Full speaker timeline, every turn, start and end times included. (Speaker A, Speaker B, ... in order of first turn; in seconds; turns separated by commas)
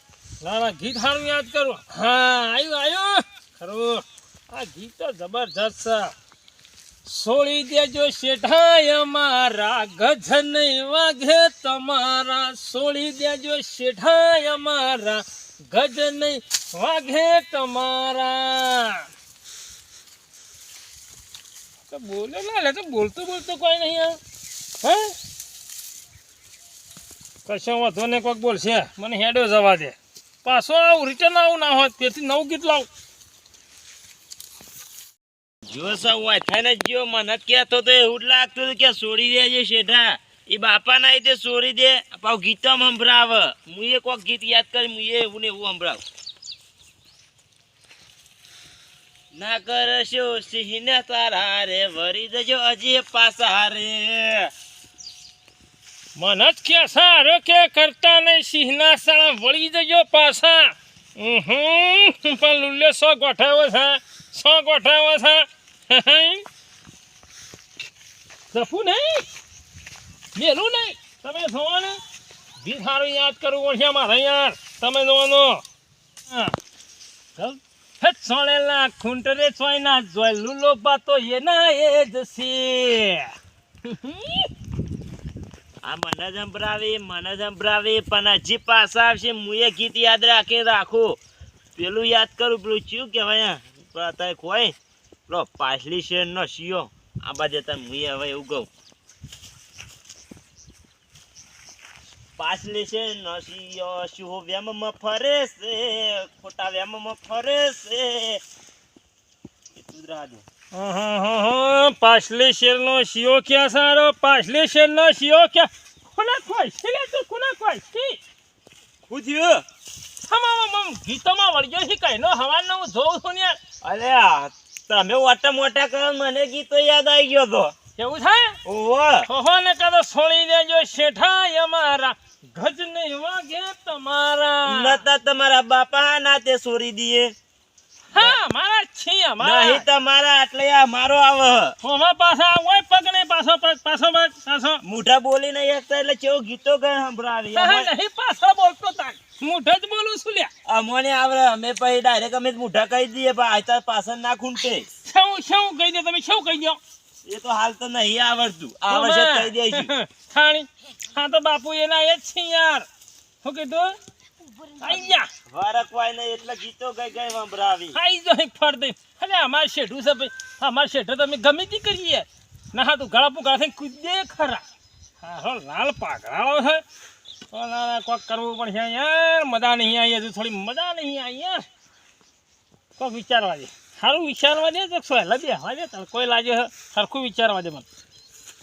Speaker A: 0.4-6.1, Speaker A: 7.0-19.0, Speaker A: 21.9-24.2, Speaker A: 24.8-25.1, Speaker A: 27.4-32.9, Speaker B: 35.7-46.0, Speaker B: 49.3-54.5, Speaker A: 56.1-66.4, Speaker A: 68.5-69.2, Speaker A: 70.3-72.0, Speaker A: 72.6-75.6, Speaker A: 76.3-76.5, Speaker A: 77.3-83.3, Speaker A: 83.9-84.5, Speaker B: 85.8-91.2, Speaker B: 91.8-94.7, Speaker B: 95.3-98.7, Speaker B: 102.4-108.4, Speaker B: 109.7-110.4, Speaker A: 110.7-118.2, Speaker B: 119.1-119.6, Speaker A: 120.2-123.6, Speaker B: 123.8-127.7, Speaker A: 128.0-128.6, Speaker B: 128.6-129.3, Speaker A: 129.2-135.0, Speaker B: 134.7-137.3, Speaker B: 138.1-138.4, Speaker A: 138.1-139.9, Speaker B: 139.4-141.8, Speaker A: 141.8-144.8, Speaker B: 144.8-147.9, Speaker A: 147.5-150.5, Speaker B: 150.7-154.8, Speaker A: 155.0-156.8, Speaker B: 157.2-159.9, Speaker A: 158.9-162.8, Speaker A: 163.4-163.9, Speaker A: 164.8-165.3, Speaker B: 165.4-168.0, Speaker A: 167.9-174.6, Speaker A: 175.2-176.8, Speaker A: 177.5-181.6, Speaker A: 183.0-187.8